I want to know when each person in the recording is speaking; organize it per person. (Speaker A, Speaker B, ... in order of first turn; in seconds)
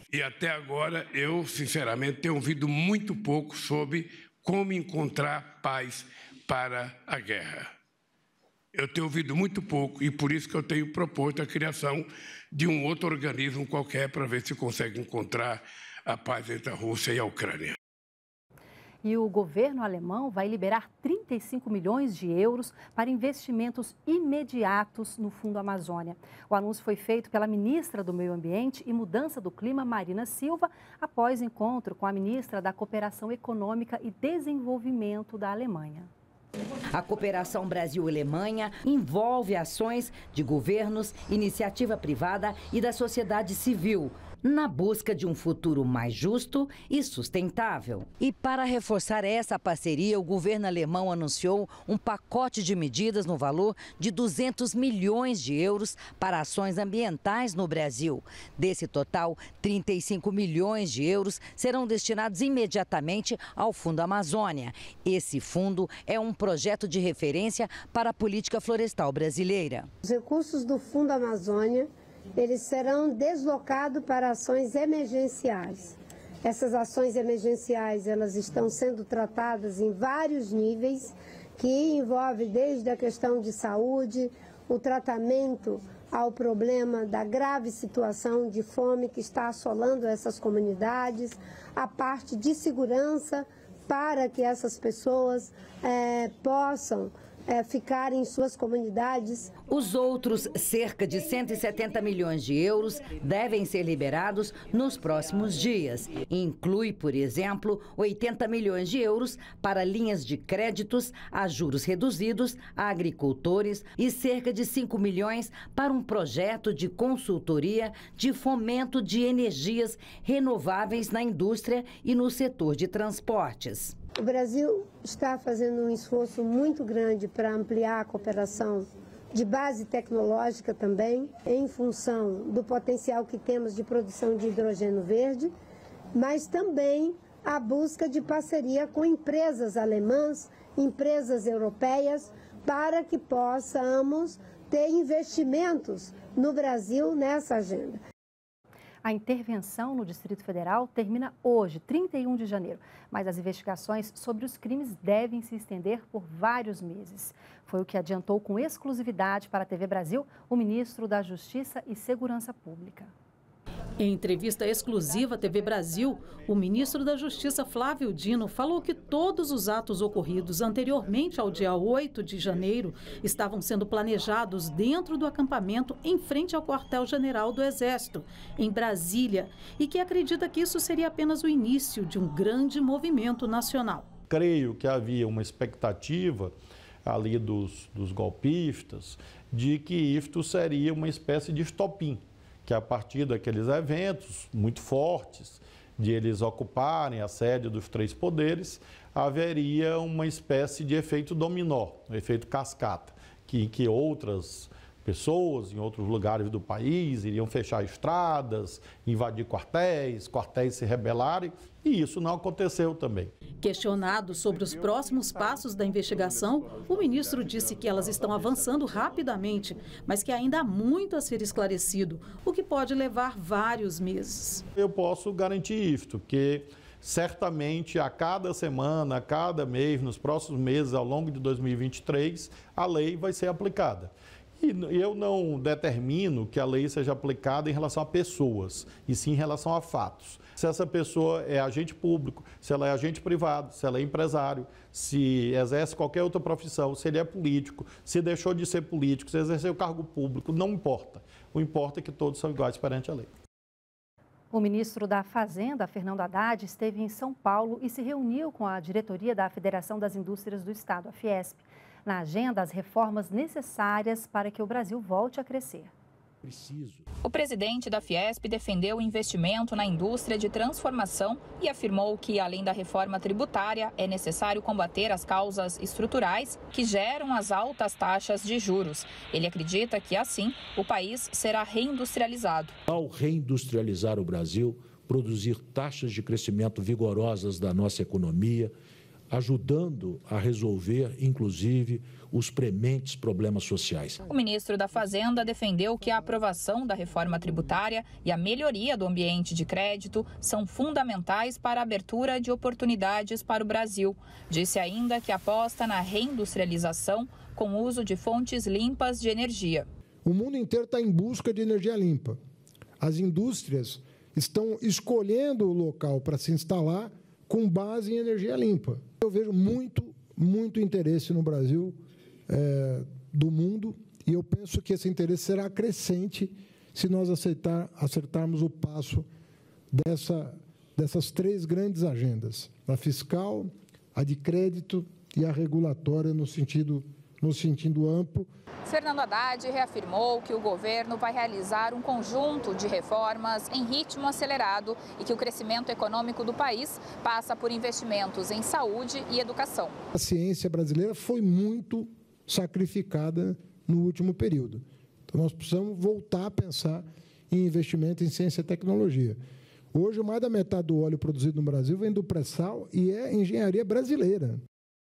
Speaker A: 0.1-7.7, 8.7-17.8
Speaker B: 19.0-36.1, 149.0-163.1, 254.5-265.9
Speaker C: 36.9-69.9, 99.7-123.9
Speaker D: 70.0-99.5, 124.2-135.5, 136.1-148.0
Speaker E: 164.0-184.1, 213.6-224.6
Speaker F: 184.3-186.5, 187.1-213.3, 224.8-253.3
Speaker G: 266.5-267.0, 282.9-288.7, 289.3-294.2
Speaker H: 267.2-282.7, 294.3-309.8, 338.9-349.9
Speaker I: 310.2-312.4, 313.0-321.9, 322.5-329.3, 329.9-338.5, 350.1-359.4, 359.9-364.6